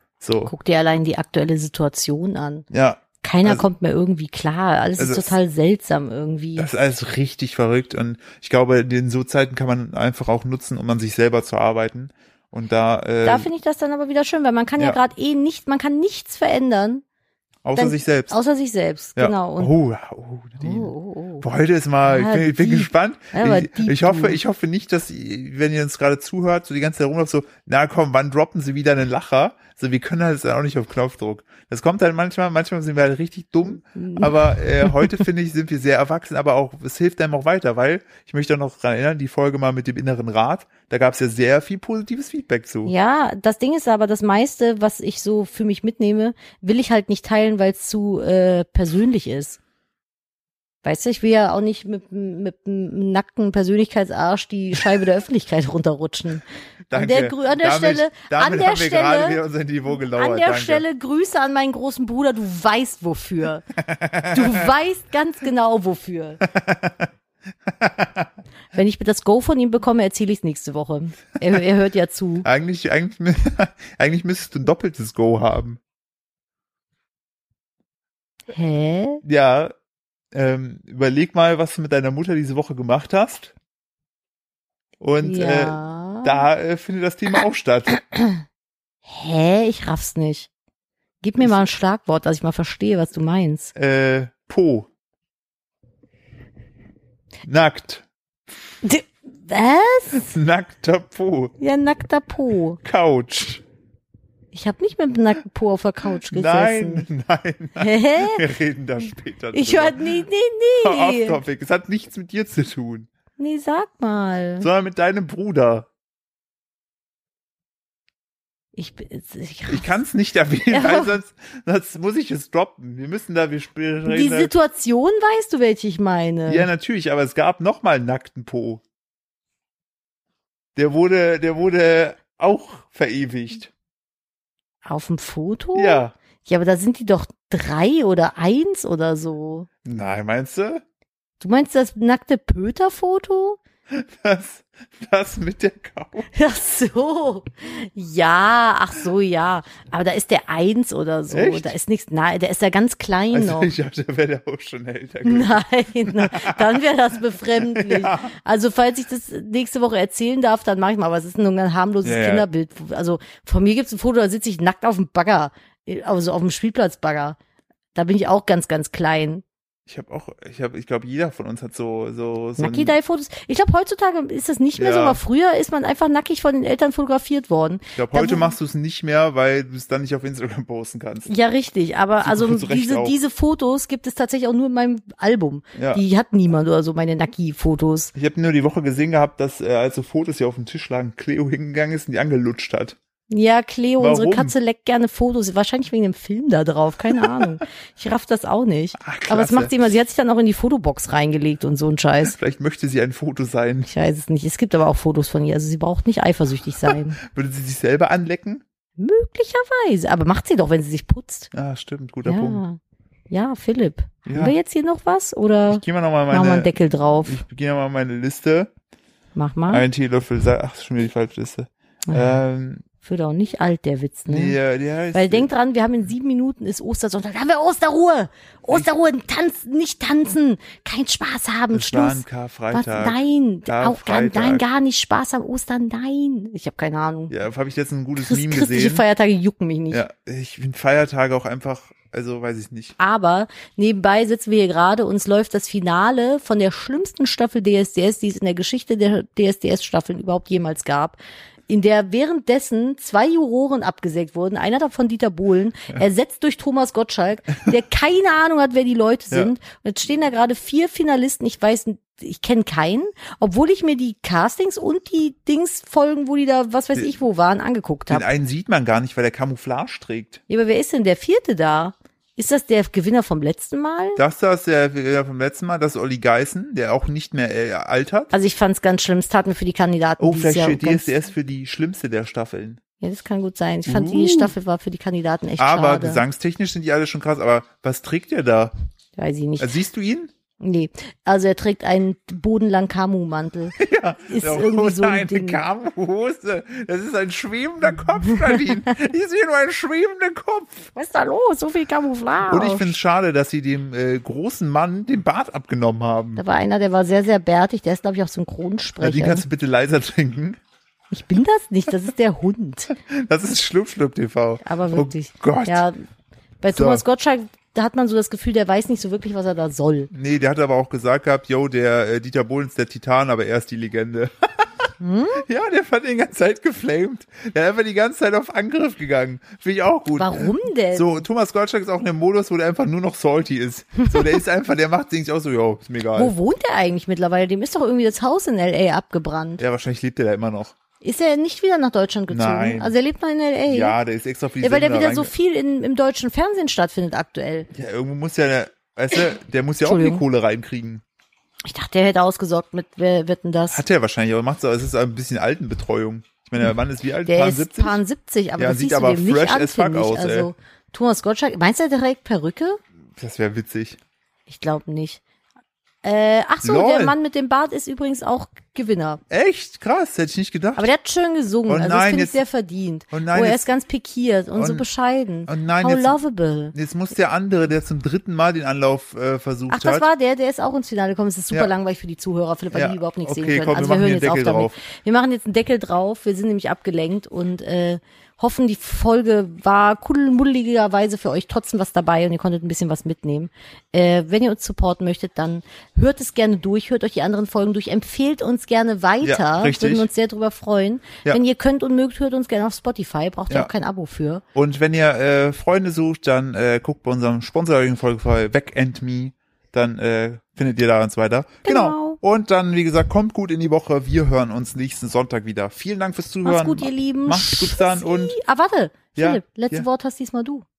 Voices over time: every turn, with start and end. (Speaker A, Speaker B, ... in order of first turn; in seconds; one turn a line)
Speaker A: 0.2-0.5
Speaker B: 0.4-2.7
Speaker A: 2.7-3.6
Speaker B: 3.2-6.7
Speaker A: 5.0-5.3
Speaker A: 6.6-13.5
Speaker B: 13.2-17.0
Speaker A: 17.6-18.4
Speaker B: 17.8-19.7
Speaker A: 19.2-42.9
Speaker B: 20.6-21.4
Speaker B: 22.0-24.4
Speaker B: 33.9-35.1
Speaker B: 42.8-49.6
Speaker B: 50.8-59.4
Speaker A: 56.9-60.8
Speaker B: 60.1-63.6
Speaker A: 63.8-64.7
Speaker B: 64.3-66.4
Speaker A: 66.4-67.1
Speaker A: 67.7-68.3
Speaker B: 68.7-72.5
Speaker A: 72.4-75.8
Speaker B: 78.5-79.2
Speaker A: 79.2-79.7
Speaker A: 80.3-83.5
Speaker A: 85.0-87.9
Speaker B: 85.2-86.4
Speaker B: 87.9-88.4
Speaker B: 89.1-90.5
Speaker B: 91.2-93.7
Speaker A: 93.7-94.9
Speaker A: 97.4-98.0
Speaker B: 98.8-100.4
Speaker A: 100.2-101.5
Speaker B: 101.6-102.8
Speaker A: 102.8-103.6
Speaker B: 104.5-107.0
Speaker A: 106.3-110.2
Speaker B: 107.8-108.4
Speaker B: 109.5-111.4
Speaker A: 110.8-113.1
Speaker B: 113.4-114.7
Speaker A: 114.6-115.9
Speaker B: 118.8-120.0
Speaker A: 119.7-124.5
Speaker B: 120.7-121.1
Speaker B: 124.1-126.7
Speaker A: 126.5-128.8
Speaker A: 130.8-133.7
Speaker B: 134.8-139.7
Speaker A: 135.8-136.1
Speaker A: 139.8-140.8
Speaker B: 141.4-143.6
Speaker A: 143.9-146.2
Speaker B: 146.3-153.7
Speaker A: 151.3-151.7
Speaker A: 153.3-156.8
Speaker B: 155.2-167.4
Speaker A: 157.6-158.3
Speaker A: 162.0-162.4
Speaker B: 167.9-169.4
Speaker A: 169.9-172.9
Speaker B: 172.6-178.5
Speaker A: 174.8-175.2
Speaker A: 177.9-181.3
Speaker B: 181.2-188.1
Speaker A: 182.2-183.1
Speaker A: 185.7-186.0
Speaker A: 188.1-193.0
Speaker B: 193.3-202.3
Speaker A: 194.0-194.5
Speaker A: 199.0-199.7
Speaker A: 202.2-203.9
Speaker B: 203.8-207.2
Speaker A: 206.8-208.6
Speaker B: 209.0-211.5
Speaker A: 211.5-212.6
Speaker B: 212.2-212.8
Speaker B: 213.3-217.4
Speaker A: 214.2-214.5
Speaker A: 215.7-216.7
Speaker A: 217.2-218.7
Speaker B: 219.3-219.8
Speaker A: 219.7-222.8
Speaker B: 222.1-222.3
Speaker B: 223.0-224.6
Speaker A: 224.3-225.5
Speaker B: 225.1-237.3
Speaker A: 231.7-234.6
Speaker A: 237.3-239.0
Speaker B: 238.2-240.0
Speaker A: 239.9-242.9
Speaker B: 243.0-251.2
Speaker B: 251.7-268.2
Speaker A: 268.1-270.4
Speaker B: 270.5-274.2
Speaker A: 274.1-278.3
Speaker B: 278.3-281.1
Speaker A: 280.2-282.8
Speaker B: 283.0-286.2
Speaker A: 283.9-284.5
Speaker A: 285.6-288.7
Speaker B: 289.2-289.7
Speaker A: 289.6-290.3
Speaker B: 290.6-293.8
Speaker A: 293.8-300.9
Speaker B: 294.3-295.6
Speaker B: 300.9-302.9
Speaker A: 302.5-306.4
Speaker B: 306.4-309.4
Speaker A: 309.0-310.6
Speaker B: 311.1-312.9
Speaker A: 312.9-315.8
Speaker B: 314.6-316.0
Speaker B: 316.6-320.1
Speaker A: 316.7-317.0
Speaker A: 320.1-324.9
Speaker B: 325.0-325.4
Speaker A: 325.4-336.3
Speaker B: 330.2-331.2
Speaker B: 336.1-339.6
Speaker A: 339.6-340.7
Speaker B: 341.0-343.9
Speaker A: 342.3-342.9
Speaker A: 343.7-345.3
Speaker B: 344.6-347.7
Speaker A: 347.7-351.0
Speaker B: 349.8-350.2
Speaker B: 351.6-353.8
Speaker A: 353.7-358.0
Speaker B: 357.2-362.8
Speaker A: 358.6-360.5
Speaker A: 363.2-364.0
Speaker B: 364.5-365.2
Speaker B: 366.0-369.2
Speaker A: 366.6-367.1
Speaker A: 369.3-370.9
Speaker B: 370.8-376.7
Speaker A: 371.7-372.4
Speaker A: 373.1-373.7
Speaker A: 374.5-374.8
Speaker A: 375.5-376.2
Speaker A: 376.7-380.1
Speaker B: 379.7-404.4
Speaker A: 382.7-384.8
Speaker A: 399.2-400.1
Speaker A: 404.5-418.4
Speaker B: 411.6-412.2
Speaker B: 416.4-420.6
Speaker A: 419.1-419.9